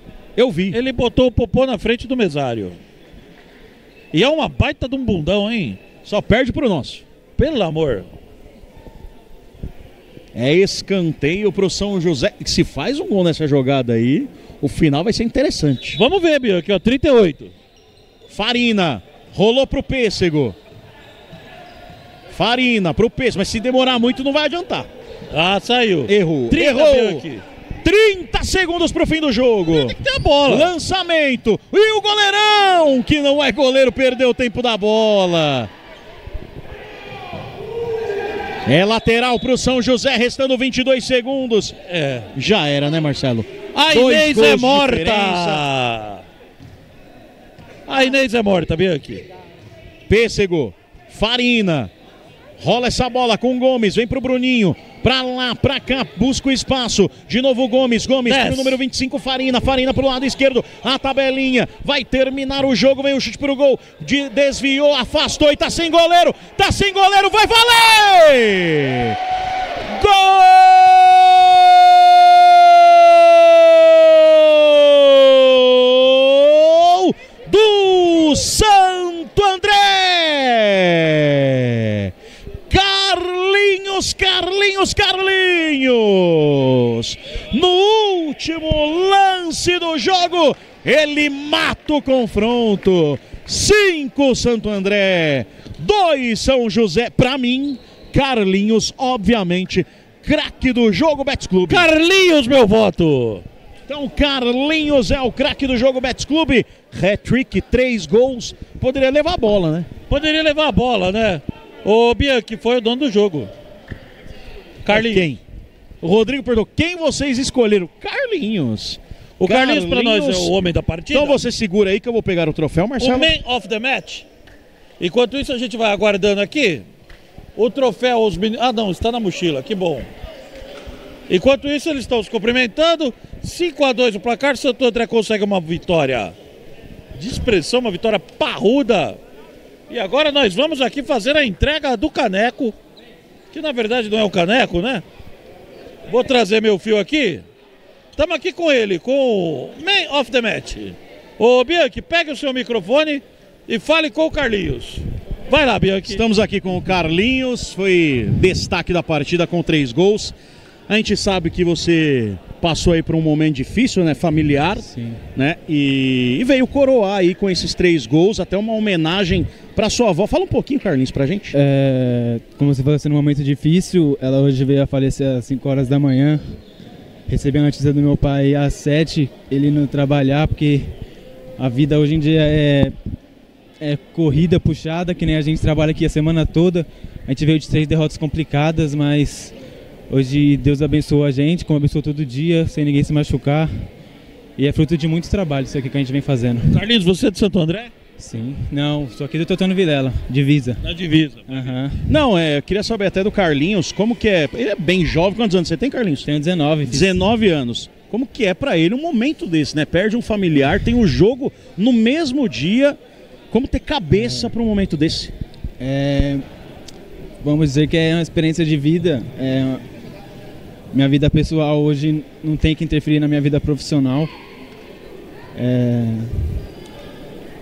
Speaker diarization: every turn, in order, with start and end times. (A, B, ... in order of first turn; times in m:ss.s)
0:00.4-0:00.8 A
0:00.7-0:02.8 B
0:04.1-0:05.8 B
0:06.0-0:07.0 A
0:07.4-0:08.1 B
0:10.3-0:16.0 A
0:15.9-0:17.5 B
0:18.3-0:20.6 A
0:22.3-0:24.9 A
0:25.3-0:27.4 B
0:26.1-0:27.2 A
0:27.8-0:35.7 A
0:29.7-0:30.7 B
0:38.6-0:41.8 A
0:41.9-0:42.3 B
0:42.3-0:45.6 A
0:43.8-0:46.2 B
0:47.9-0:49.2 B
0:50.1-0:51.9 A
0:52.6-1:09.2 A
0:58.3-0:58.8 B
1:09.8-1:22.1 A
1:22.7-1:41.9 A
1:41.7-1:43.4 B
1:43.9-1:49.9 A
1:50.1-1:53.5 B
1:54.8-1:55.3 B
1:54.9-1:55.4 A
1:56.0-2:00.5 A
1:59.4-2:01.4 B
2:01.1-2:03.3 A
2:03.0-2:04.2 B
2:05.0-2:06.8 B
2:07.6-2:10.1 B
2:11.3-2:16.4 B
2:17.2-2:19.2 B
2:19.9-2:22.8 B
2:23.5-2:25.0 B
2:26.1-2:27.4 B
2:28.2-2:36.2 B
2:36.0-2:40.4 A
2:40.9-2:51.6 A
2:44.8-2:45.2 C
2:51.5-2:56.4 C
2:57.3-3:00.9 C
3:01.6-3:02.9 C
3:03.8-3:09.6 C
3:10.1-3:13.7 C
3:14.6-3:16.7 C
3:16.6-3:17.9 B
3:18.2-3:20.8 C
3:20.8-3:21.8 B
3:21.5-3:22.0 C
3:22.1-3:26.3 A
3:26.3-3:27.2 C
3:26.9-3:33.0 A
3:33.5-3:35.3 A
3:35.8-3:36.4 C
3:37.4-3:39.8 C
3:40.9-3:44.3 C
3:45.6-3:46.4 C